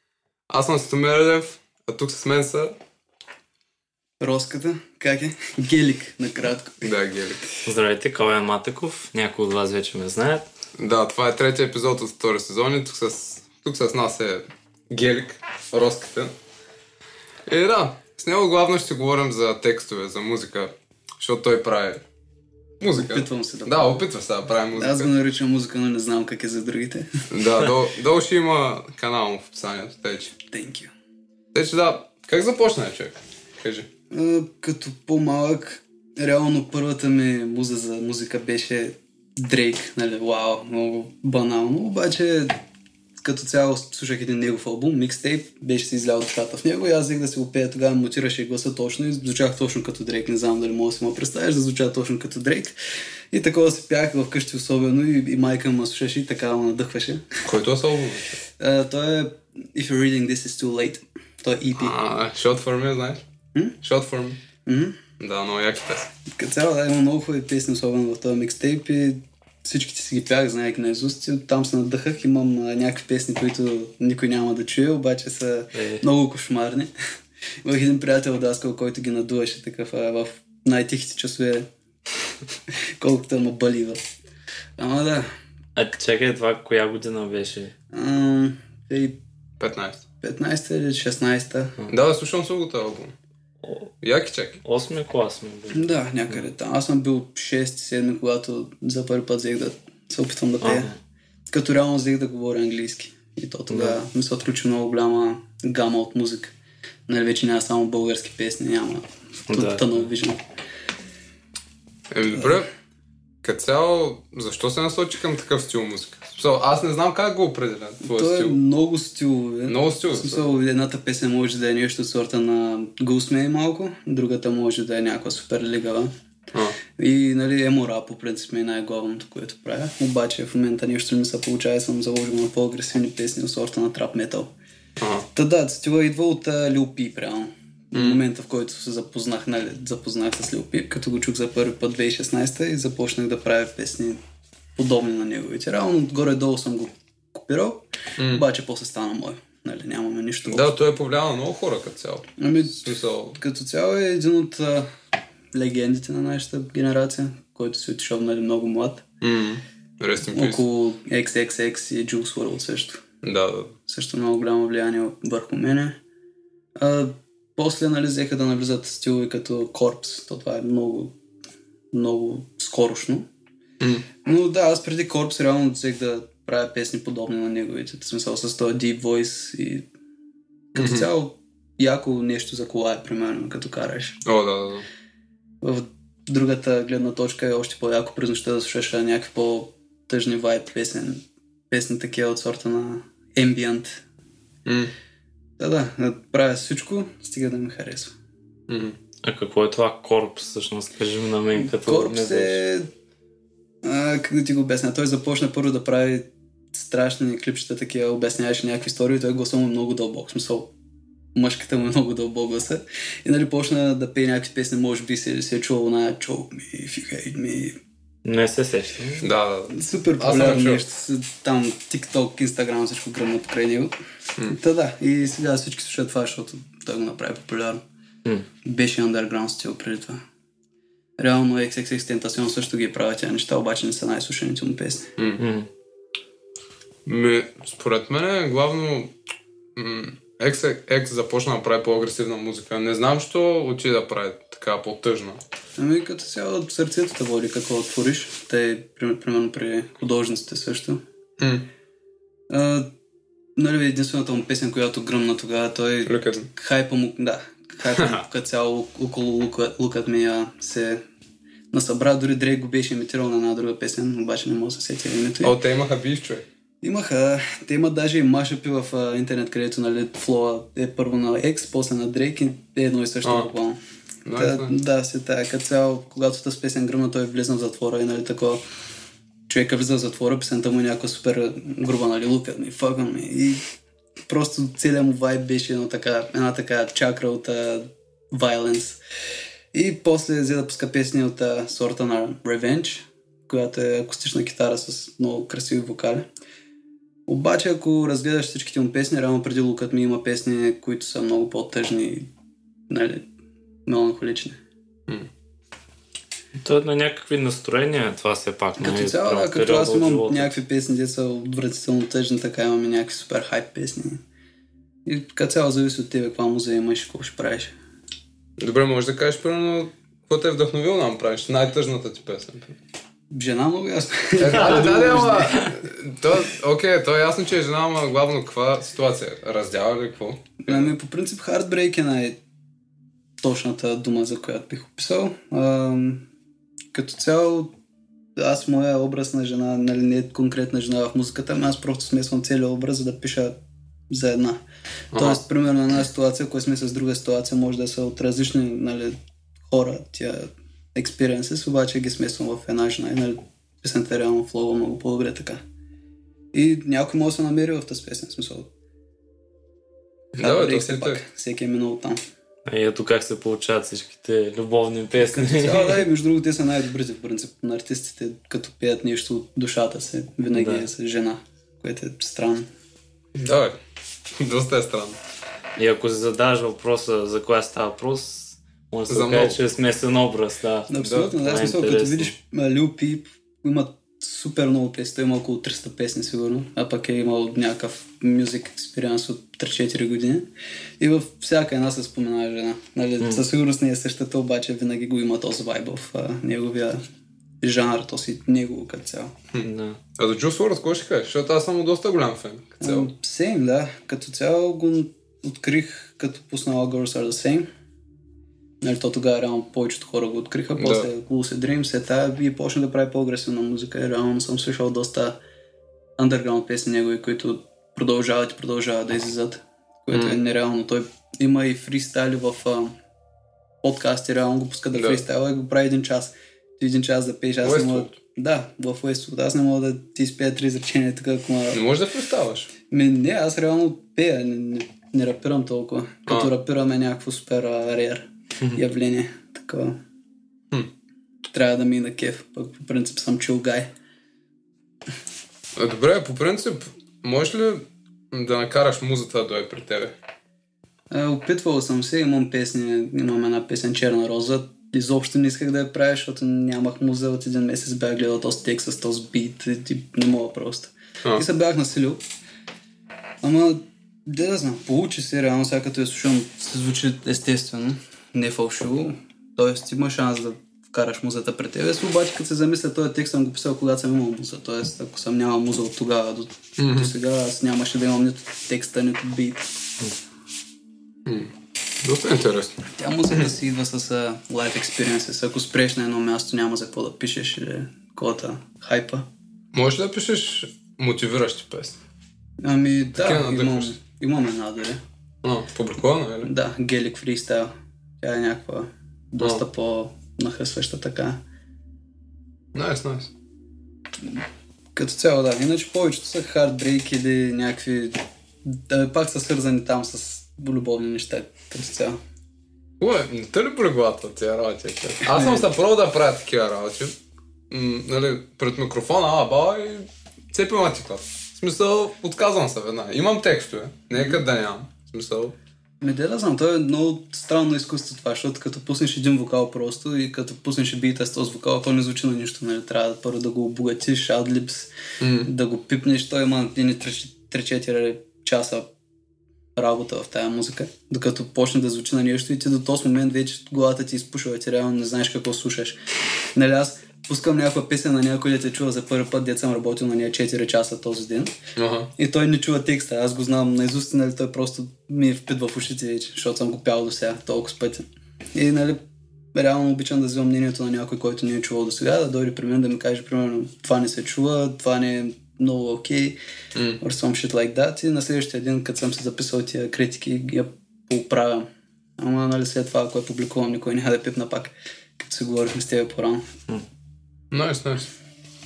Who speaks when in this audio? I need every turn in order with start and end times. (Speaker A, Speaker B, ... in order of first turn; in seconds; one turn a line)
Speaker A: 0.5-2.7
Speaker B: 4.2-6.9
Speaker A: 6.8-7.5
Speaker C: 7.6-10.5
Speaker A: 10.8-16.3
Speaker A: 17.5-22.0
Speaker A: 22.8-25.1
Speaker B: 22.9-24.0
Speaker B: 24.7-27.1
Speaker A: 27.3-30.3
Speaker B: 30.5-30.9
Speaker A: 31.5-33.9
Speaker B: 34.1-42.5
Speaker B: 43.2-52.8
Speaker B: 53.3-57.4
Speaker A: 57.4-58.4
Speaker B: 58.6-62.0
Speaker A: 61.8-63.2
Speaker A: 63.8-64.4
Speaker B: 64.7-65.0
Speaker A: 65.2-66.1
Speaker B: 66.3-76.9
Speaker C: 75.7-76.0
Speaker B: 77.6-81.7
Speaker B: 82.7-84.0
Speaker B: 84.8-85.3
Speaker C: 85.8-87.7
Speaker B: 87.9-89.2
Speaker A: 89.6-90.0
Speaker B: 90.2-91.9
Speaker A: 91.9-93.1
Speaker A: 94.0-94.6
Speaker C: 94.6-95.9
Speaker B: 95.7-100.9
Speaker C: 100.6-100.9
Speaker B: 101.5-106.5
Speaker C: 103.7-104.0
Speaker B: 107.1-110.4
Speaker C: 109.5-110.1
Speaker A: 112.1-112.7
Speaker A: 113.4-118.5
Speaker B: 118.0-126.1
Speaker A: 119.7-120.4
Speaker B: 126.9-134.5
Speaker A: 135.0-135.3
Speaker B: 135.3-144.2
Speaker A: 137.9-138.2
Speaker B: 144.8-150.7
Speaker A: 148.2-148.4
Speaker A: 150.4-153.4
Speaker B: 152.4-154.9
Speaker B: 155.5-159.1
Speaker A: 159.2-160.6
Speaker B: 160.3-163.0
Speaker A: 163.2-163.7
Speaker B: 163.9-166.0
Speaker B: 166.8-171.1
Speaker B: 171.9-173.3
Speaker A: 173.8-174.1
Speaker B: 174.2-179.9
Speaker B: 180.7-184.2
Speaker A: 180.8-181.1
Speaker A: 184.2-184.8
Speaker B: 185.6-194.0
Speaker A: 194.7-194.9
Speaker B: 195.6-198.1
Speaker A: 198.7-198.9
Speaker C: 199.2-202.6
Speaker B: 201.6-202.9
Speaker B: 203.8-210.7
Speaker B: 211.3-217.8
Speaker C: 218.2-219.3
Speaker A: 219.2-220.8
Speaker B: 219.7-223.9
Speaker B: 224.5-227.8
Speaker B: 228.6-230.2
Speaker B: 231.2-235.1
Speaker A: 235.2-235.4
Speaker C: 235.4-235.7
Speaker A: 237.1-239.1
Speaker A: 239.8-245.4
Speaker B: 245.8-251.0
Speaker A: 251.4-251.7
Speaker B: 252.5-252.9
Speaker B: 253.6-261.0
Speaker A: 256.1-256.5
Speaker A: 257.9-258.2
Speaker B: 261.7-265.5
Speaker A: 265.4-266.4
Speaker B: 266.8-273.8
Speaker A: 273.2-273.5
Speaker A: 274.2-274.7
Speaker B: 274.3-278.6
Speaker B: 279.5-283.6
Speaker B: 284.3-289.0
Speaker B: 289.7-296.3
Speaker B: 297.3-302.3
Speaker B: 302.9-303.2
Speaker B: 303.9-304.6
Speaker C: 306.6-310.6
Speaker B: 308.8-314.2
Speaker B: 315.0-317.7
Speaker A: 318.6-322.7
Speaker B: 323.3-325.7
Speaker A: 324.4-330.9
Speaker C: 324.6-324.8
Speaker B: 330.6-332.4
Speaker B: 333.4-336.2
Speaker B: 336.9-337.7
Speaker B: 338.4-343.5
Speaker B: 344.1-355.6
Speaker A: 345.1-345.4
Speaker B: 356.5-358.7
Speaker A: 360.4-361.2
Speaker B: 360.4-362.2
Speaker C: 362.7-366.0
Speaker B: 365.3-372.7
Speaker C: 370.5-370.9
Speaker A: 373.3-373.8
Speaker A: 374.4-375.2
Speaker C: 375.8-382.3
Speaker A: 379.1-379.6
Speaker B: 380.9-390.5
Speaker A: 381.0-381.3
Speaker B: 391.0-397.0
Speaker B: 397.6-399.3
Speaker A: 399.5-403.1
Speaker C: 399.6-400.0
Speaker B: 402.8-407.7
Speaker B: 408.8-415.4
Speaker A: 410.8-411.1
Speaker B: 416.2-422.9
Speaker A: 420.1-420.4
Speaker B: 423.8-431.8
Speaker A: 427.6-428.1
Speaker A: 431.7-432.7
Speaker B: 432.9-439.9
Speaker B: 441.5-443.9
Speaker A: 445.8-450.1
Speaker B: 451.1-462.2
Speaker B: 463.4-479.7
Speaker A: 476.8-477.1
Speaker A: 481.2-481.5
Speaker A: 482.0-482.8
Speaker B: 482.9-489.3
Speaker A: 489.7-492.0
Speaker B: 492.6-495.0
Speaker A: 493.1-493.9
Speaker A: 495.4-496.5
Speaker B: 496.4-501.4
Speaker A: 502.7-503.3
Speaker B: 504.9-512.2
Speaker A: 513.0-517.1
Speaker B: 515.2-515.7
Speaker A: 517.7-525.5
Speaker B: 526.0-534.9
Speaker A: 535.2-535.5
Speaker B: 535.4-538.9
Speaker B: 539.8-546.0
Speaker B: 546.5-551.6
Speaker A: 551.8-552.1
Speaker B: 552.2-559.0
Speaker B: 559.5-566.4
Speaker A: 566.7-567.0
Speaker B: 567.0-571.6
Speaker B: 572.2-576.6
Speaker A: 577.5-578.1